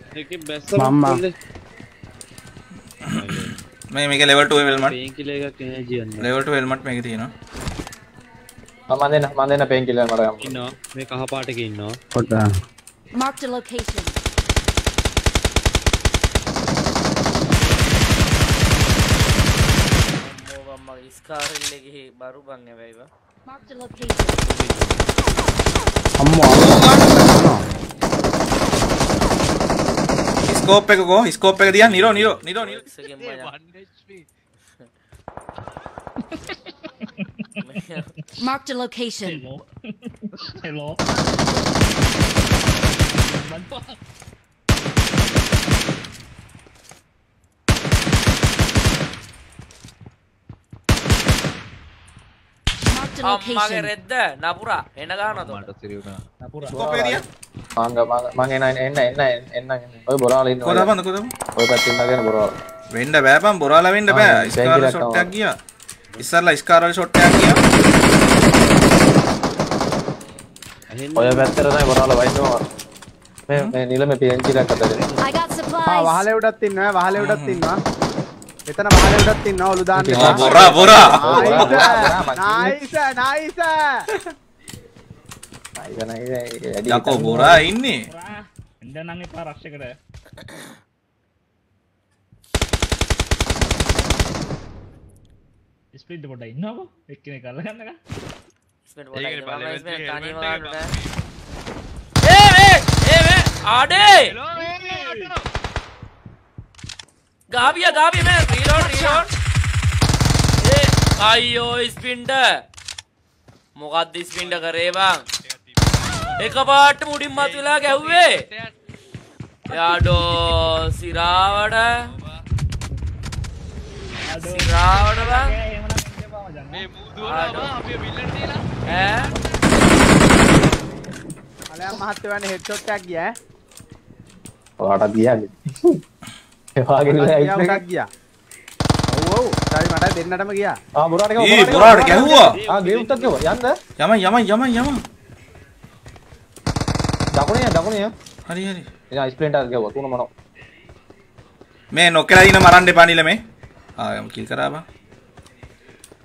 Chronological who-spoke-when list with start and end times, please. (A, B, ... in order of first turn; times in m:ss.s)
0:00.1-0:01.3 A
0:00.8-0:01.2 B
0:03.0-0:05.0 C
0:03.1-0:03.6 A
0:04.4-0:06.3 A
0:06.2-0:07.3 C
0:08.9-0:10.7 D
0:10.4-0:12.0 A
0:13.1-0:14.2 E
0:20.1-0:23.1 F
0:23.5-0:24.4 E
0:26.2-0:26.7 B
0:26.5-0:27.5 C
0:30.4-0:32.8 C
0:31.7-0:32.4 G
0:32.5-0:33.5 F
0:33.1-0:34.2 G
0:36.3-0:37.6 H
0:37.6-0:38.1 F
0:38.4-0:39.4 E
0:39.2-0:41.2 H
0:42.8-0:44.0 H
0:52.9-0:53.9 E
0:53.2-0:55.7 F
0:55.3-0:56.2 G
0:56.4-0:56.8 H
0:56.7-0:57.2 D
0:56.7-0:57.2 C
0:57.8-1:00.9 D
1:00.6-1:01.4 C
1:01.6-1:02.5 D
1:02.9-1:05.5 C
1:04.1-1:05.3 D
1:06.2-1:07.6 C
1:10.9-1:11.7 A
1:11.1-1:12.6 D
1:13.5-1:15.1 D
1:14.6-1:15.2 A
1:15.2-1:16.2 E
1:15.8-1:17.8 B
1:17.2-1:17.6 C
1:18.7-1:23.7 B
1:19.9-1:22.8 D
1:20.1-1:21.7 C
1:25.8-1:27.7 D
1:26.9-1:28.1 C
1:28.1-1:29.9 H
1:35.9-1:37.9 H
1:38.9-1:40.9 F
1:39.1-1:41.2 G
1:42.2-1:44.3 F
1:44.1-1:45.4 G
1:44.5-1:45.3 H
1:47.5-1:49.3 F
1:48.7-1:49.3 E
1:50.6-1:52.4 F
1:53.8-1:55.2 F
1:54.4-1:56.5 G
1:56.4-1:58.4 F
1:57.3-1:58.7 G
1:59.7-2:01.9 F
1:59.8-2:00.7 G
2:02.0-2:02.4 G
2:04.2-2:06.9 H
2:04.4-2:05.5 F
2:06.7-2:08.6 G
2:07.2-2:07.7 F
2:08.9-2:09.3 F
2:11.7-2:13.3 B
2:14.8-2:15.6 D
2:16.8-2:17.8 D
2:17.1-2:18.0 B
2:19.1-2:20.8 B
2:21.0-2:23.7 D
2:21.4-2:22.6 C
2:21.8-2:23.4 A
2:24.0-2:25.0 C
2:27.4-2:28.1 D
2:28.5-2:28.9 C
2:29.1-2:30.3 D
2:31.9-2:33.4 C
2:34.0-2:34.8 C